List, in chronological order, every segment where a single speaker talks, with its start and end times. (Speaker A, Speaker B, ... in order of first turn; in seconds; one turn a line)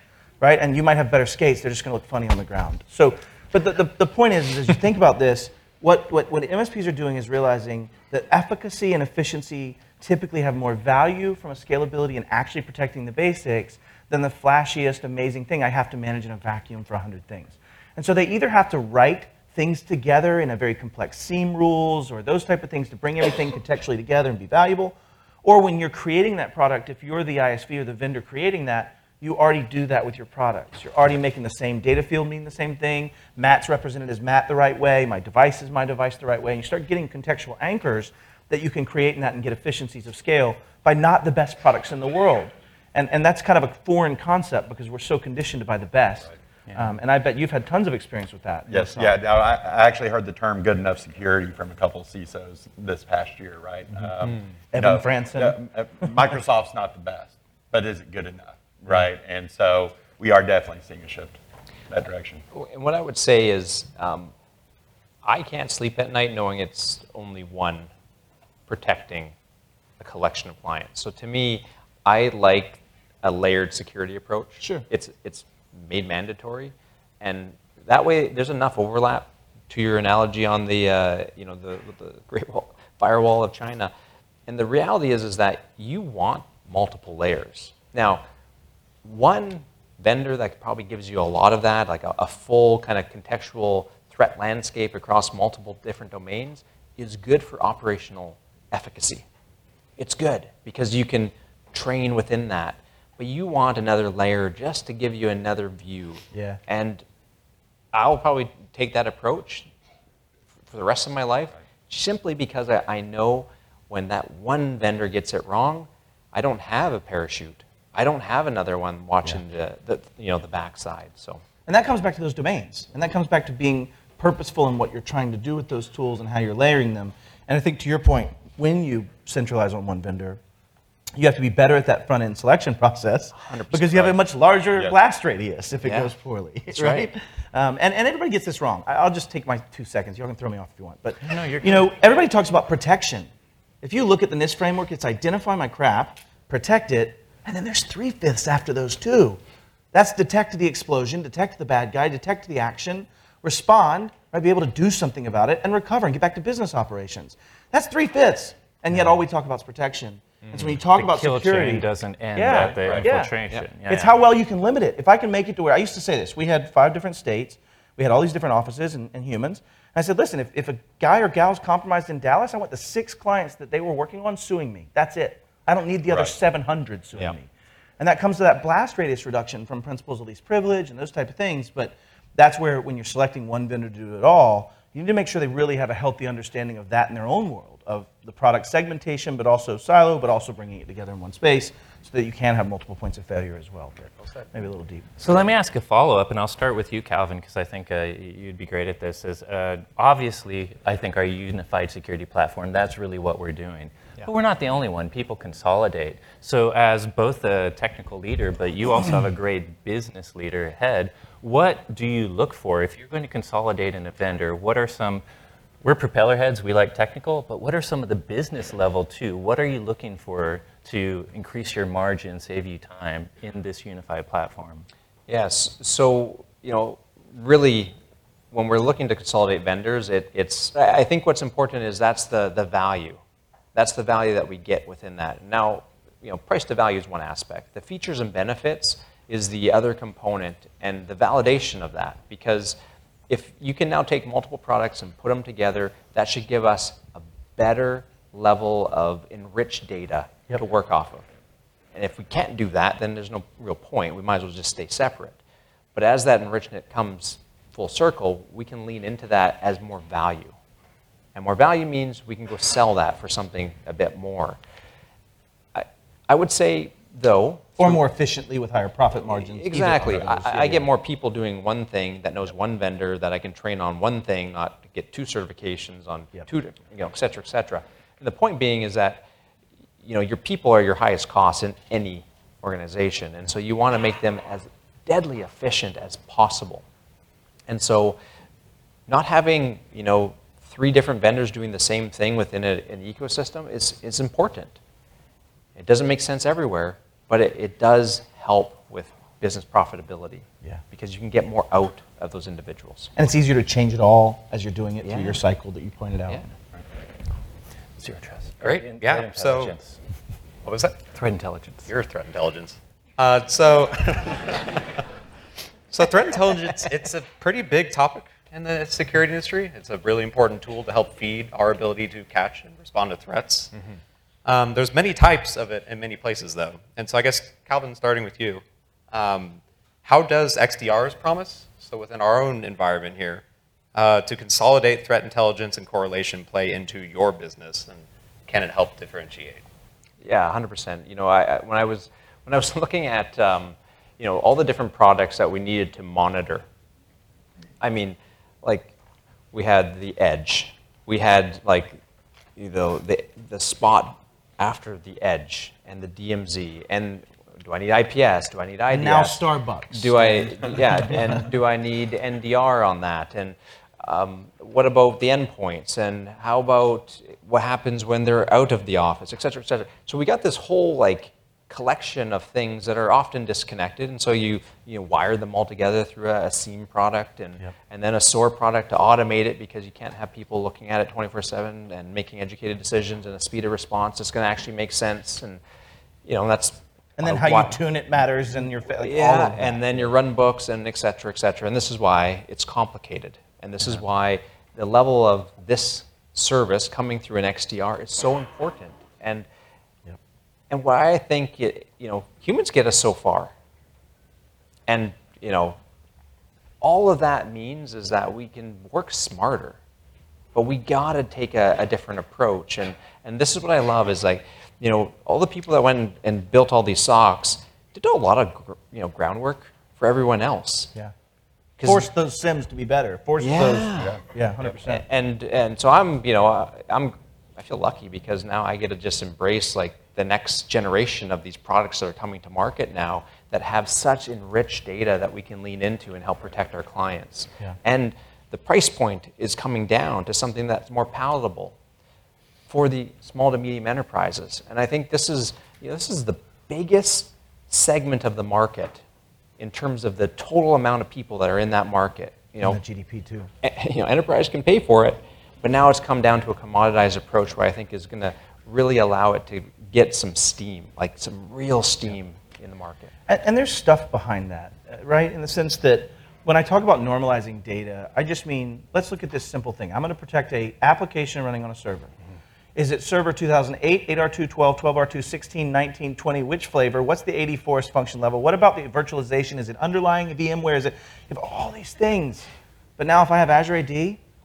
Speaker A: 0.4-49.2
Speaker B: 46.7-46.9
Speaker C: 48.7-62.4
Speaker A: 54.7-56.1
Speaker D: 62.5-64.3
Speaker D: 65.2-67.9
Speaker D: 68.7-69.3
Speaker D: 70.0-83.9
Speaker A: 74.6-74.9
Speaker D: 84.5-88.2
Speaker D: 89.0-99.3
Speaker D: 100.0-107.0
Speaker A: 106.3-106.6
Speaker D: 107.9-109.7
Speaker D: 110.7-121.4
Speaker A: 121.7-130.4
Speaker A: 131.2-143.3
Speaker D: 133.3-134.2
Speaker D: 135.8-136.1
Speaker D: 136.7-137.1
Speaker B: 141.2-141.9
Speaker A: 143.8-149.4
Speaker A: 149.9-163.3
Speaker D: 160.4-160.7
Speaker B: 160.9-164.1
Speaker A: 163.9-195.3
Speaker C: 176.1-176.3
Speaker B: 195.2-215.2
Speaker B: 215.8-224.9
Speaker D: 225.3-227.9
Speaker D: 228.5-233.2
Speaker D: 233.8-242.8
Speaker D: 243.3-251.3
Speaker D: 251.9-255.4
Speaker D: 255.9-260.6
Speaker D: 261.4-264.6
Speaker D: 265.8-268.0
Speaker A: 267.8-270.9
Speaker D: 269.3-279.3
Speaker D: 280.0-286.9
Speaker D: 287.7-288.2
Speaker D: 289.1-294.8
Speaker D: 295.8-303.1
Speaker A: 303.2-306.5
Speaker B: 308.0-310.0
Speaker E: 308.6-309.8
Speaker E: 310.6-311.0
Speaker B: 311.1-311.9
Speaker E: 311.9-314.4
Speaker E: 315.9-323.7
Speaker E: 324.4-333.4
Speaker E: 333.9-339.6
Speaker D: 340.2-346.6
Speaker D: 347.8-348.9
Speaker D: 349.5-352.0
Speaker D: 352.6-385.6
Speaker A: 358.9-361.4
Speaker D: 386.3-387.8
Speaker A: 387.2-389.9
Speaker D: 389.0-399.5
Speaker D: 400.7-403.5
Speaker D: 404.9-405.8
Speaker D: 406.8-409.8
Speaker D: 410.5-420.9
Speaker D: 421.8-422.1
Speaker A: 421.8-425.0
Speaker D: 423.4-424.2
Speaker D: 424.9-441.8
Speaker D: 442.7-449.0
Speaker D: 449.6-452.8
Speaker A: 452.6-453.5
Speaker D: 453.6-463.1
Speaker A: 463.3-472.1
Speaker A: 472.8-484.2